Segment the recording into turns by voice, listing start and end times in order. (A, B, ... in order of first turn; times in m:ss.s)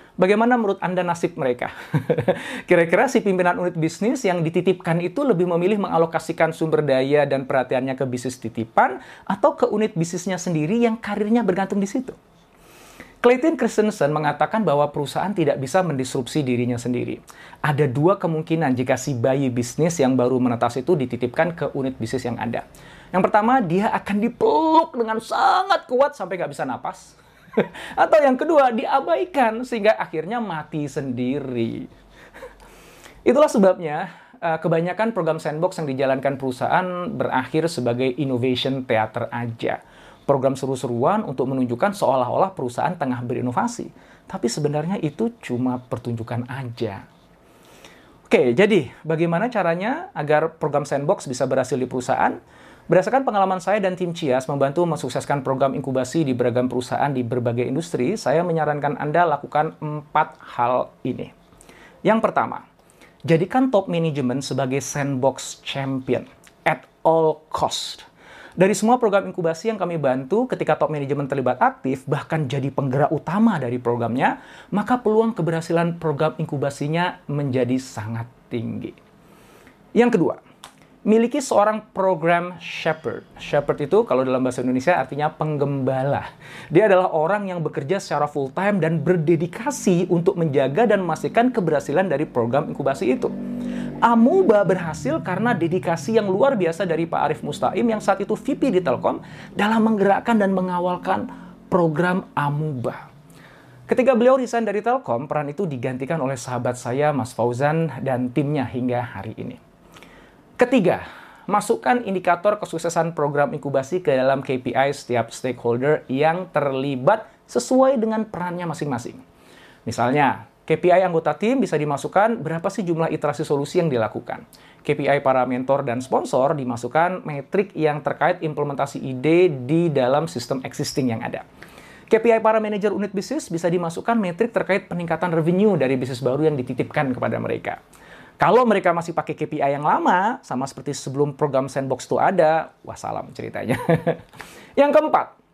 0:00.2-0:12.2 A
0:13.2-0:31.9 A
0:33.2-0:47.0 A
0:48.3-1:01.3 A
1:02.0-1:02.6 A
1:03.3-1:08.1 A
1:08.6-1:19.0 A
1:20.0-1:20.4 A
1:21.1-1:33.3 A
1:34.0-1:43.1 A
1:43.9-1:49.6 A
1:50.6-1:59.2 A
1:59.9-2:11.4 A
2:12.1-2:17.8 A
2:18.4-2:24.2 A
2:24.8-2:25.3 A